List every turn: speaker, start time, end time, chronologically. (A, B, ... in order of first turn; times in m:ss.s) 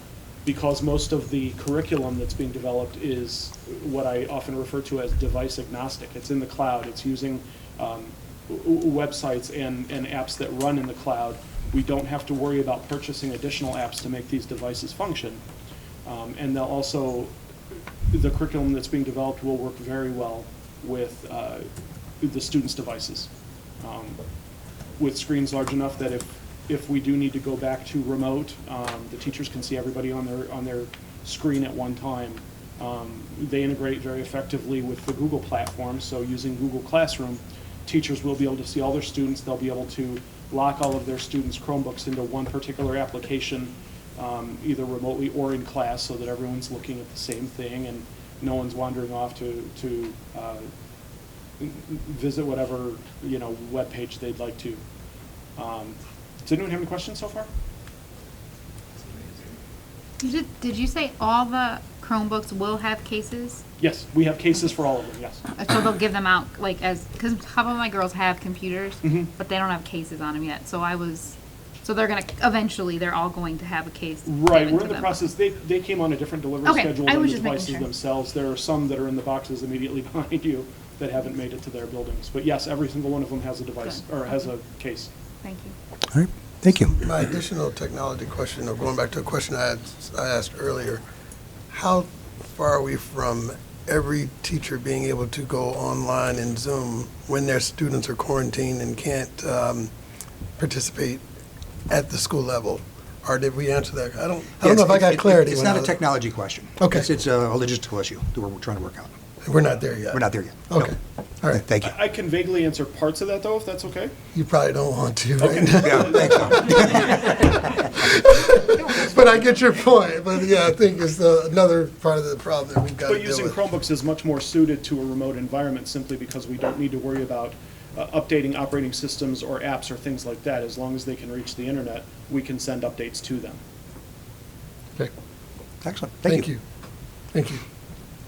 0:00.4-0:15.4 A
0:16.0-0:17.3 A
0:18.1-0:21.7 A
0:22.2-0:23.3 A
0:23.8-0:24.2 A
0:25.0-0:50.7 A
0:51.6-0:54.8 A
0:55.6-0:57.5 A
1:00.2-1:03.6 B
1:03.8-1:05.4 A
1:05.5-1:15.2 B
1:09.0-1:09.3 A
1:14.2-1:25.1 A
1:16.6-1:17.9 B
1:25.4-1:25.7 B
1:26.1-1:27.0 C
1:27.0-1:31.0 D
1:31.7-1:39.9 D
1:40.6-1:41.2 D
1:41.9-1:45.9 D
1:44.6-1:49.1 C
1:46.8-1:47.1 D
1:49.4-1:51.6 D
1:50.1-1:50.9 C
1:51.5-1:51.9 C
1:51.8-1:54.1 A
1:54.3-1:57.2 D
1:55.4-1:57.2 A
1:55.8-1:57.5 C
1:58.1-2:03.6 D
2:03.0-2:13.6 A
2:15.8-2:16.5 C
2:16.2-2:16.6 D
2:17.3-2:17.6 D